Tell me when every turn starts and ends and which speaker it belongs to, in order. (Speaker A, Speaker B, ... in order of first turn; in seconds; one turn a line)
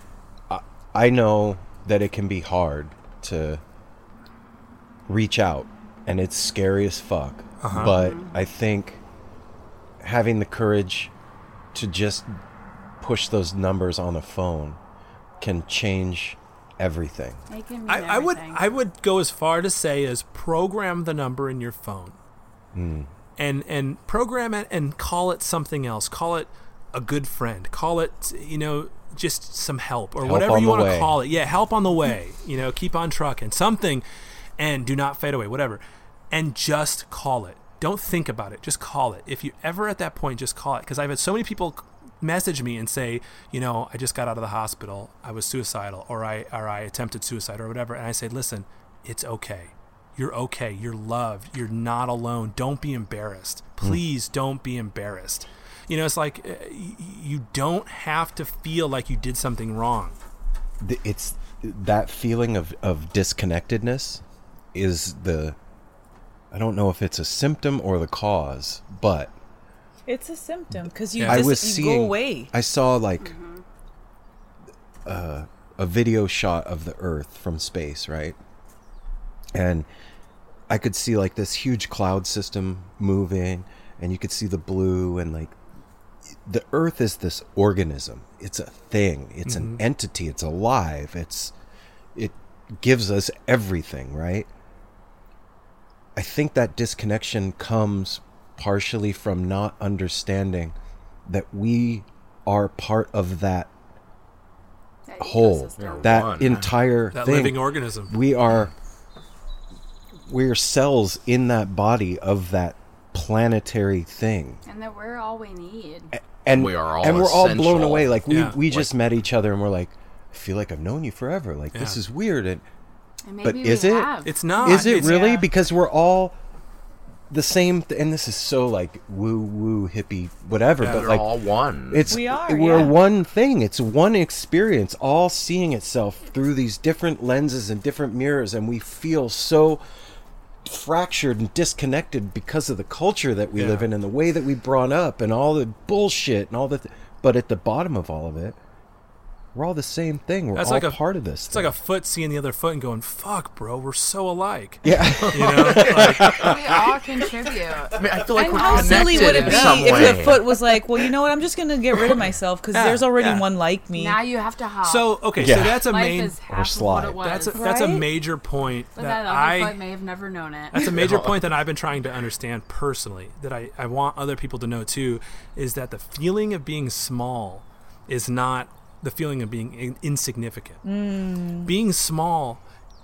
Speaker A: 0.5-3.6
Speaker A: 5.1-9.0
Speaker B: 7.6-8.0
Speaker C: 7.9-8.3
Speaker A: 10.0-11.1
Speaker A: 11.7-12.4
Speaker A: 13.0-14.8
Speaker A: 15.4-17.4
Speaker C: 17.5-18.6
Speaker B: 17.9-22.2
Speaker A: 22.7-23.1
Speaker B: 23.4-34.0
Speaker A: 30.2-31.2
Speaker B: 34.6-60.2
Speaker A: 60.8-64.2
Speaker A: 64.7-65.6
Speaker A: 66.5-69.3
Speaker D: 70.1-72.5
Speaker B: 71.2-71.5
Speaker A: 71.2-73.3
Speaker C: 73.2-73.6
Speaker A: 75.1-78.4
Speaker A: 79.5-79.9
Speaker A: 80.7-85.6
Speaker A: 86.4-91.5
Speaker B: 89.5-89.8
Speaker A: 92.2-94.5
Speaker A: 96.2-100.8
Speaker A: 101.3-103.7
Speaker C: 105.1-106.3
Speaker A: 105.2-108.7
Speaker E: 105.8-106.7
Speaker B: 107.1-108.2
Speaker A: 110.2-114.6
Speaker C: 114.7-116.1
Speaker A: 116.1-122.6
Speaker E: 116.5-118.9
Speaker B: 118.3-118.6
Speaker B: 121.7-122.0
Speaker C: 123.2-125.1
Speaker A: 123.4-126.4
Speaker B: 124.2-125.4
Speaker D: 124.6-125.5
Speaker A: 127.3-131.3
Speaker B: 130.8-131.2
Speaker E: 130.8-132.1
Speaker A: 131.9-139.8
Speaker D: 132.1-132.9
Speaker A: 140.7-148.6
Speaker B: 143.6-143.9
Speaker A: 149.5-151.8
Speaker B: 150.5-156.5
Speaker A: 154.8-156.9
Speaker C: 156.3-159.8
Speaker E: 158.0-160.6
Speaker D: 158.3-164.2
Speaker B: 162.7-163.5
Speaker C: 163.9-165.2
Speaker B: 164.8-166.4
Speaker A: 165.4-167.3
Speaker C: 165.8-167.7
Speaker B: 167.2-169.8
Speaker D: 167.5-168.1
Speaker C: 169.0-170.8
Speaker B: 170.7-180.8
Speaker D: 180.8-181.7
Speaker B: 181.7-182.6